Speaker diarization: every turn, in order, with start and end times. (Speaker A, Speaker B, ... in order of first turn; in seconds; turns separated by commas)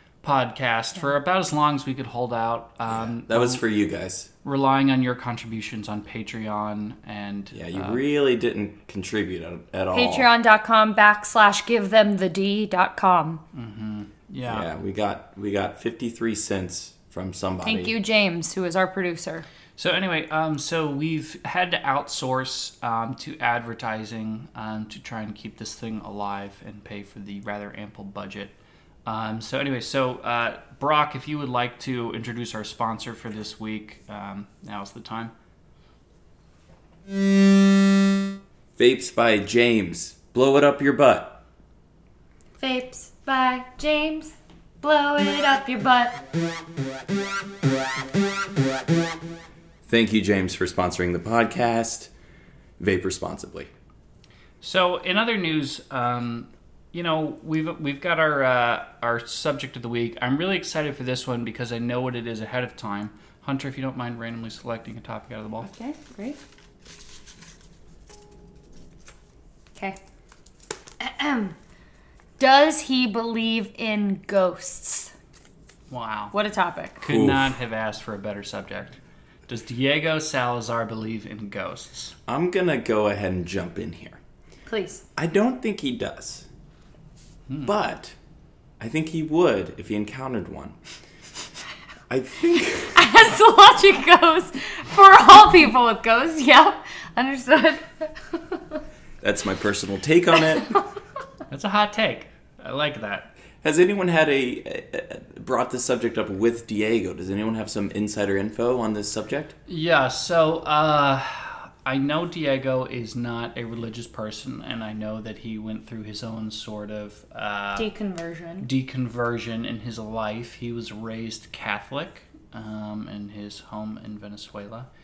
Speaker A: 0.2-3.6, Speaker B: 2.9-4.3, Speaker A: 4.4-8.0, Speaker B: 7.5-10.3, Speaker C: 9.9-13.4, Speaker A: 13.5-14.7, Speaker B: 14.4-17.9, Speaker C: 17.6-19.5, Speaker A: 19.8-28.5, Speaker A: 29.1-35.3, Speaker B: 38.8-41.4, Speaker C: 42.6-46.2, Speaker B: 49.9-52.1, Speaker B: 52.8-53.7, Speaker A: 54.6-65.7, Speaker C: 65.6-66.4, Speaker C: 71.0-71.6, Speaker C: 72.4-75.1, Speaker A: 75.9-76.3, Speaker C: 76.3-77.0, Speaker A: 77.0-82.2, Speaker B: 77.1-77.5, Speaker B: 82.3-84.2, Speaker C: 84.7-85.0, Speaker B: 85.2-86.5, Speaker A: 87.5-87.7, Speaker B: 87.7-88.2, Speaker B: 88.8-90.8, Speaker B: 92.1-93.0, Speaker C: 93.0-98.8, Speaker B: 99.2-100.7, Speaker A: 101.5-103.3, Speaker B: 103.6-109.5, Speaker A: 109.7-117.9, Speaker C: 117.8-118.7, Speaker A: 118.6-124.9